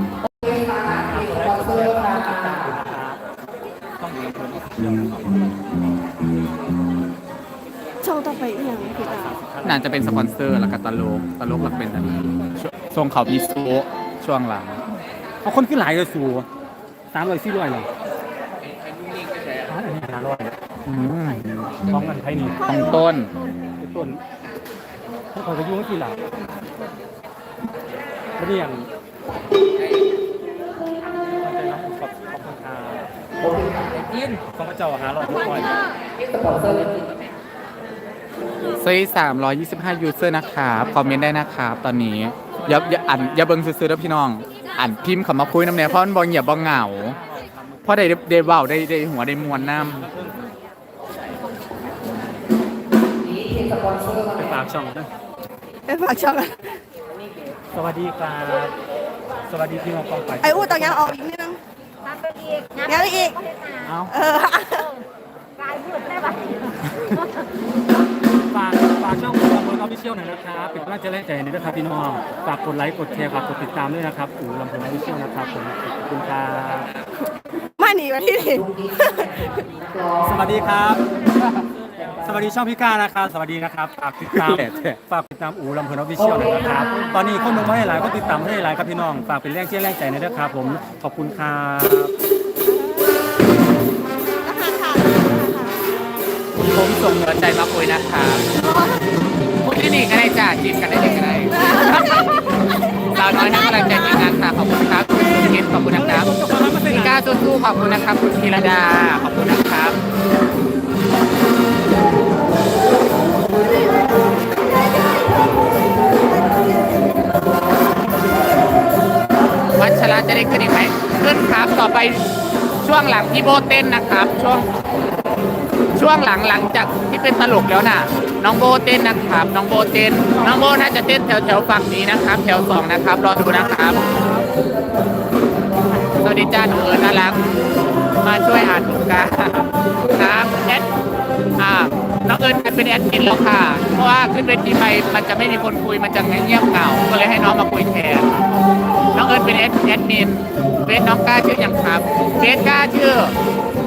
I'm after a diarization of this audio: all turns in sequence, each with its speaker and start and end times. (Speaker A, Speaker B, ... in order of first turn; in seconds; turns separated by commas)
Speaker A: 1.0-3.2, Speaker A: 4.0-5.5, Speaker B: 8.0-9.3, Speaker A: 9.1-10.0, Speaker C: 9.6-14.8, Speaker A: 15.4-16.5, Speaker A: 17.1-17.9, Speaker A: 19.6-20.6, Speaker C: 20.9-21.8, Speaker A: 21.9-22.6, Speaker C: 22.6-23.3, Speaker A: 23.8-24.2, Speaker A: 25.3-26.3, Speaker A: 28.4-28.9, Speaker A: 31.3-33.1, Speaker A: 34.1-35.8, Speaker C: 38.8-47.2, Speaker A: 47.1-47.9, Speaker C: 47.9-50.1, Speaker A: 49.6-50.4, Speaker A: 54.3-55.1, Speaker B: 55.9-56.7, Speaker A: 57.7-58.7, Speaker A: 59.5-61.2, Speaker B: 60.4-61.6, Speaker B: 62.8-63.4, Speaker C: 63.8-64.1, Speaker B: 64.1-64.9, Speaker A: 68.5-76.9, Speaker B: 77.8-79.5, Speaker A: 80.2-81.0, Speaker A: 82.1-92.1, Speaker C: 84.3-84.9, Speaker B: 92.6-93.2, Speaker B: 94.4-95.8, Speaker C: 96.7-98.4, Speaker B: 98.6-99.1, Speaker C: 99.6-102.4, Speaker B: 101.3-104.3, Speaker C: 103.1-106.3, Speaker A: 105.1-107.3, Speaker C: 106.8-110.0, Speaker B: 113.8-117.2, Speaker C: 119.8-122.2, Speaker C: 122.8-124.7, Speaker C: 125.9-134.0, Speaker C: 136.2-137.4, Speaker C: 138.2-140.9, Speaker C: 141.6-148.3, Speaker C: 149.1-153.3